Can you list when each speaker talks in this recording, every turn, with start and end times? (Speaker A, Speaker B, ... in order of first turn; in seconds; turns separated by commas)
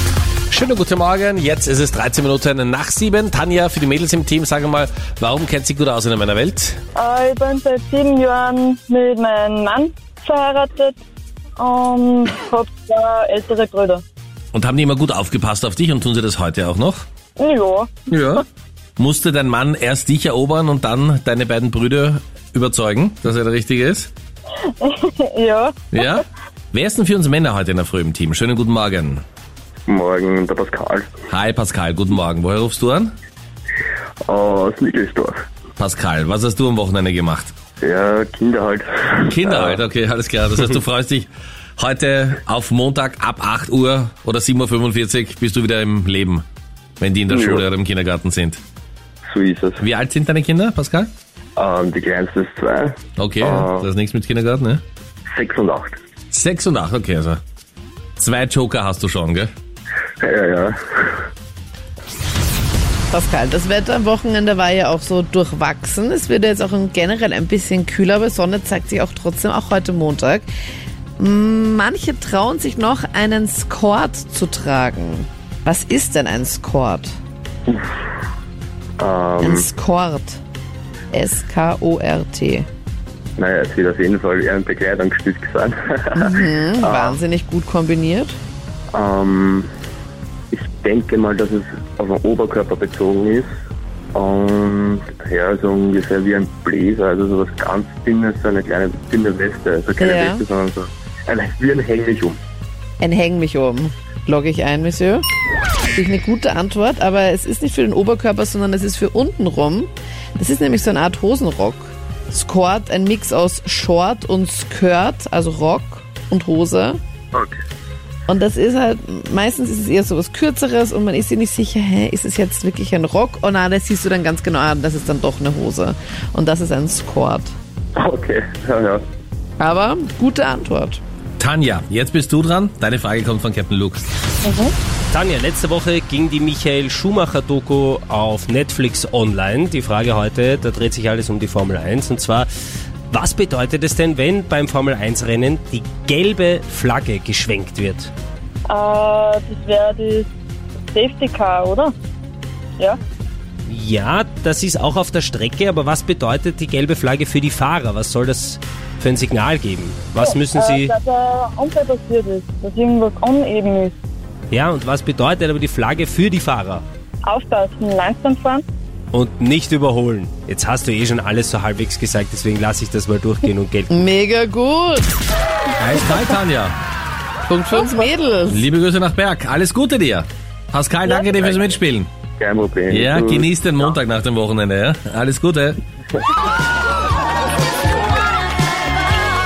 Speaker A: 0.5-6.8, Speaker B: 7.0-11.0, Speaker B: 11.6-14.0, Speaker A: 14.5-17.1, Speaker B: 17.4-17.9, Speaker A: 18.1-18.5, Speaker A: 19.0-24.1, Speaker B: 24.8-25.9, Speaker A: 25.9-29.2, Speaker C: 29.9-31.1, Speaker A: 31.3-33.1, Speaker C: 34.3-35.4, Speaker A: 35.8-37.5, Speaker C: 37.8-39.8, Speaker A: 39.3-46.4, Speaker A: 47.0-48.6, Speaker C: 47.3-47.7, Speaker C: 49.3-49.8, Speaker A: 49.8-51.1, Speaker C: 51.6-53.9, Speaker A: 53.2-54.8, Speaker C: 55.3-56.0, Speaker A: 56.3-57.4, Speaker A: 58.2-59.5, Speaker C: 60.2-61.3, Speaker D: 63.1-70.5, Speaker D: 71.2-77.2, Speaker C: 79.0-79.7, Speaker D: 79.4-80.4, Speaker D: 81.1-82.7, Speaker C: 83.4-87.2, Speaker D: 86.2-88.4, Speaker C: 88.9-89.7, Speaker C: 90.5-93.5, Speaker C: 94.1-102.4, Speaker D: 100.0-100.4, Speaker D: 103.0-105.2, Speaker D: 105.9-117.0, Speaker C: 117.3-117.6, Speaker D: 118.3-127.5, Speaker C: 128.0-129.0, Speaker D: 129.6-131.0, Speaker A: 131.4-134.1, Speaker B: 134.4-134.7, Speaker E: 135.1-142.5, Speaker E: 143.1-148.1, Speaker B: 148.7-150.3, Speaker B: 150.9-151.9, Speaker E: 153.7-160.9, Speaker B: 160.2-164.0, Speaker E: 164.5-166.8, Speaker B: 167.2-168.7, Speaker E: 169.1-174.1, Speaker D: 173.9-175.1, Speaker A: 175.8-176.8, Speaker D: 177.5-178.7, Speaker A: 178.5-182.1, Speaker C: 181.3-181.6, Speaker C: 182.4-184.0, Speaker A: 182.9-185.8